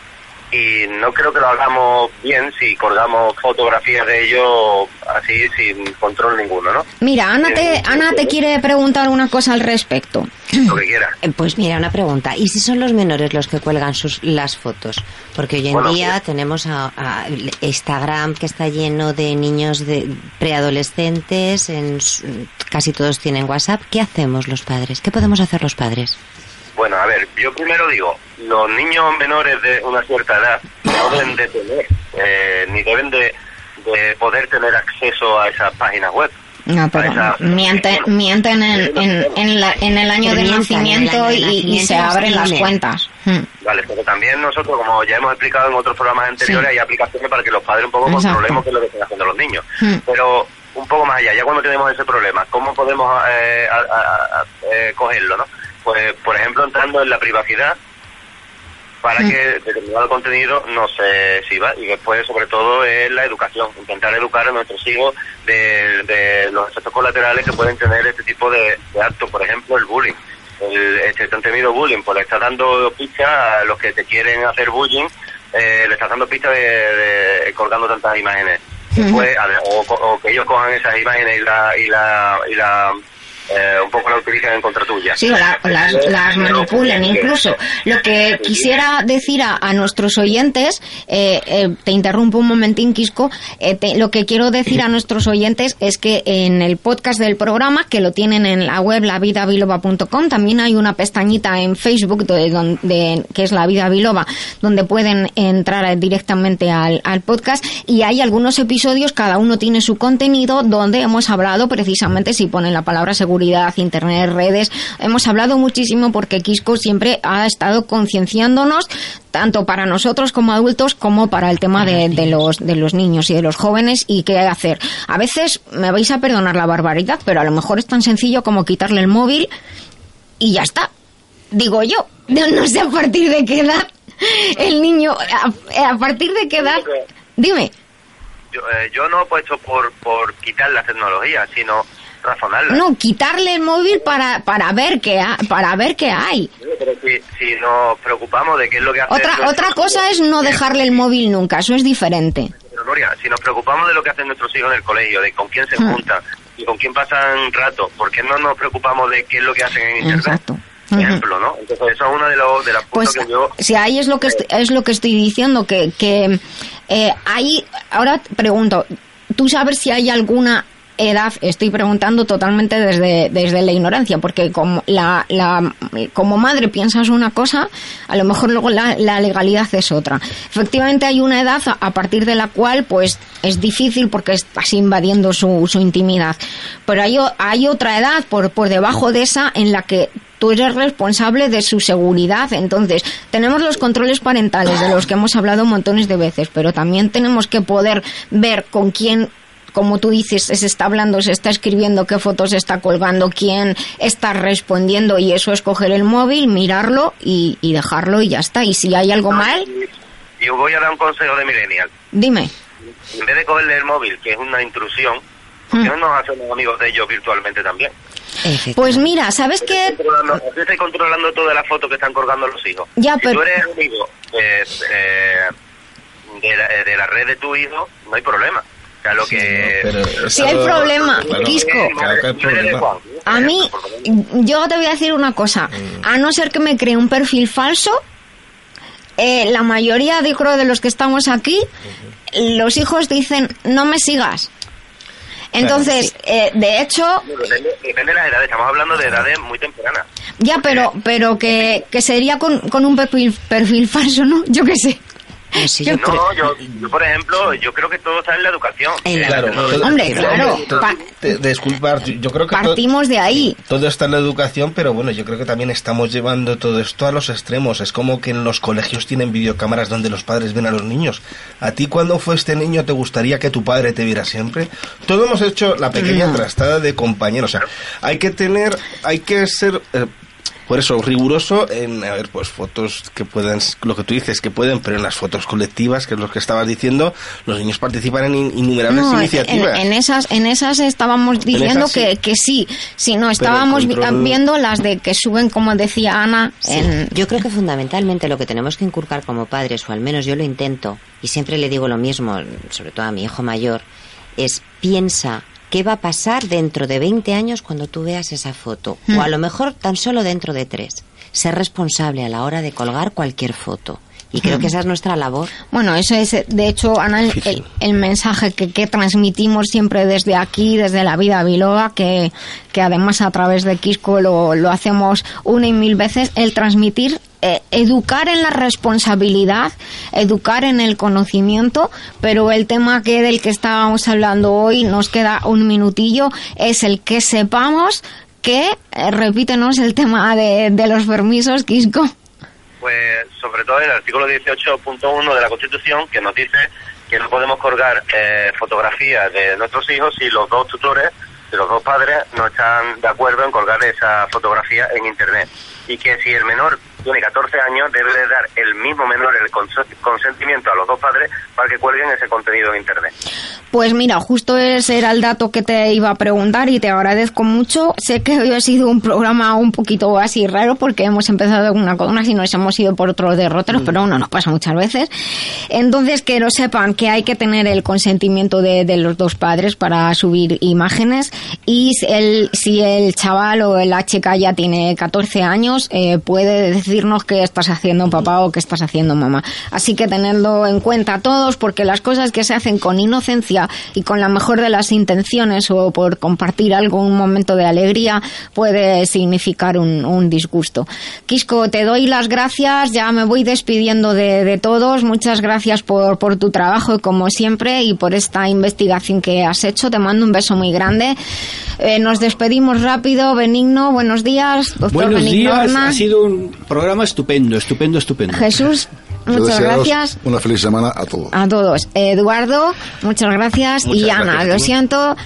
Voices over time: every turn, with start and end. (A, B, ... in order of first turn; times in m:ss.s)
0:00.5-0:06.8 A
0:07.0-0:10.5 B
0:07.4-0:08.3 A
0:10.6-0:11.1 A
0:11.2-0:26.2 C
0:15.7-0:16.1 A
0:26.8-0:36.3 A
0:36.7-0:43.4 B
0:36.9-0:38.1 A
0:38.7-0:39.3 A
0:40.2-0:42.8 C
0:43.6-0:57.8 A
0:48.1-0:48.6 B
0:59.0-1:23.0 A
1:19.0-1:19.2 B
1:23.5-1:27.3 A
1:25.2-2:09.5 B
1:28.4-1:28.7 A
2:10.4-2:10.9 B
2:11.5-2:16.8 B
2:17.4-2:17.7 B
2:18.5-2:22.8 A
2:22.7-2:26.5 B
2:26.6-2:30.9 A
2:29.1-2:32.5 B
2:32.6-2:40.4 A
2:40.0-2:41.2 B
2:40.9-2:43.5 A
2:42.9-3:29.7 B
3:29.3-3:31.9 A
3:32.1-3:32.5 B
3:33.1-3:37.9 A
3:38.4-3:39.1 C
3:38.7-3:40.0 B
3:39.6-3:45.5 A
3:43.0-3:43.4 B
3:46.4-3:54.1 A
3:49.2-3:52.8 D
3:50.3-3:52.0 B
3:53.2-3:58.0 B
3:59.2-4:01.7 B
4:02.3-4:04.5 B
4:05.5-4:07.2 B
4:07.2-4:10.1 A
4:10.4-4:15.0 B
4:10.6-4:10.9 A
4:15.5-4:16.3 C
4:15.9-4:19.8 A
4:19.0-4:21.0 B
4:19.2-4:22.8 D
4:19.8-4:20.4 C
4:22.5-4:23.6 B
4:23.6-4:40.1 D
4:36.0-4:36.4 B
4:40.7-4:49.8 D
4:48.9-4:57.2 B
4:51.5-4:52.1 D
4:53.4-4:54.4 D
4:56.6-5:03.8 C
5:04.4-5:15.5 C
5:14.4-5:14.7 B
5:15.7-5:42.1 B
5:42.8-6:03.1 A
6:03.7-6:15.1 B
6:15.7-6:51.2 B
6:51.8-6:56.0 B
6:54.9-6:58.5 E
6:58.3-7:00.2 B
6:59.3-7:01.3 F
7:01.3-7:05.2 B
7:03.8-7:04.7 D